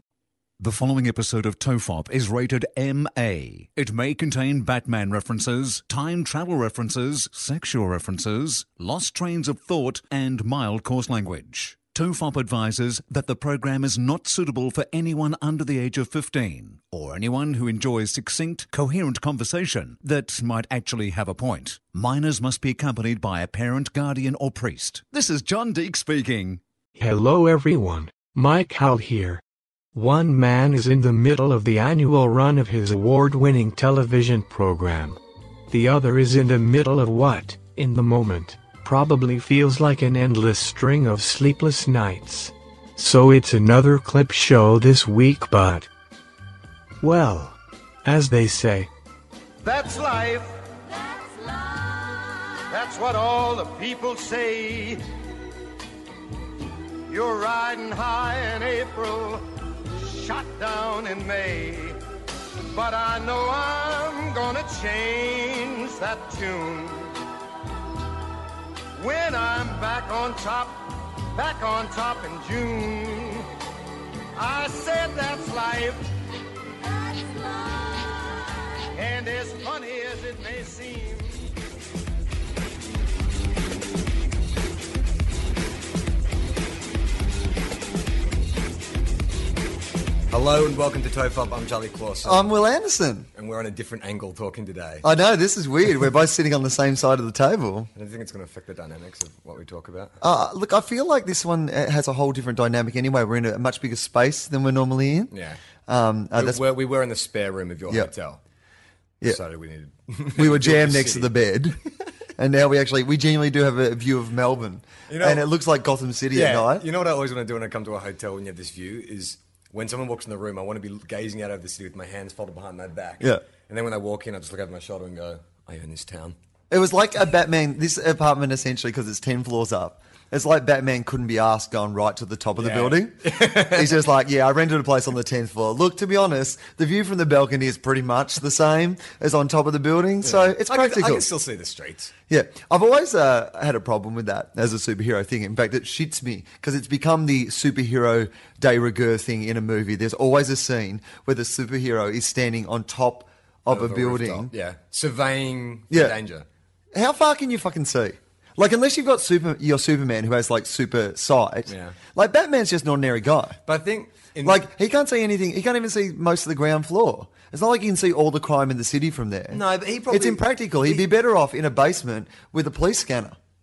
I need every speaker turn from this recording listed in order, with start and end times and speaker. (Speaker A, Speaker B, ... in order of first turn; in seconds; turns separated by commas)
Speaker A: 0.6-26.6, Speaker B: 27.0-29.4, Speaker B: 29.9-45.9, Speaker B: 47.0-48.9, Speaker C: 49.6-50.6, Speaker C: 52.6-55.0, Speaker C: 57.1-62.0, Speaker C: 62.7-67.2, Speaker C: 69.0-73.5, Speaker C: 74.3-76.0, Speaker C: 78.8-81.4, Speaker D: 90.3-92.5, Speaker E: 92.2-93.3, Speaker D: 93.3-95.1, Speaker E: 95.0-97.9, Speaker D: 98.0-100.2, Speaker E: 100.2-105.3, Speaker D: 105.3-105.6, Speaker E: 105.9-106.7, Speaker D: 106.3-108.4, Speaker D: 109.2-111.3, Speaker E: 110.4-111.8, Speaker E: 112.4-116.8, Speaker D: 115.1-115.5, Speaker D: 116.3-126.3, Speaker E: 126.7-141.3, Speaker D: 132.6-134.0, Speaker D: 140.2-142.1, Speaker E: 142.3-154.5, Speaker D: 153.7-156.5, Speaker E: 155.9-156.2, Speaker E: 156.9-163.6, Speaker D: 161.7-162.0, Speaker D: 163.7-164.6, Speaker E: 164.4-173.4, Speaker D: 169.5-171.1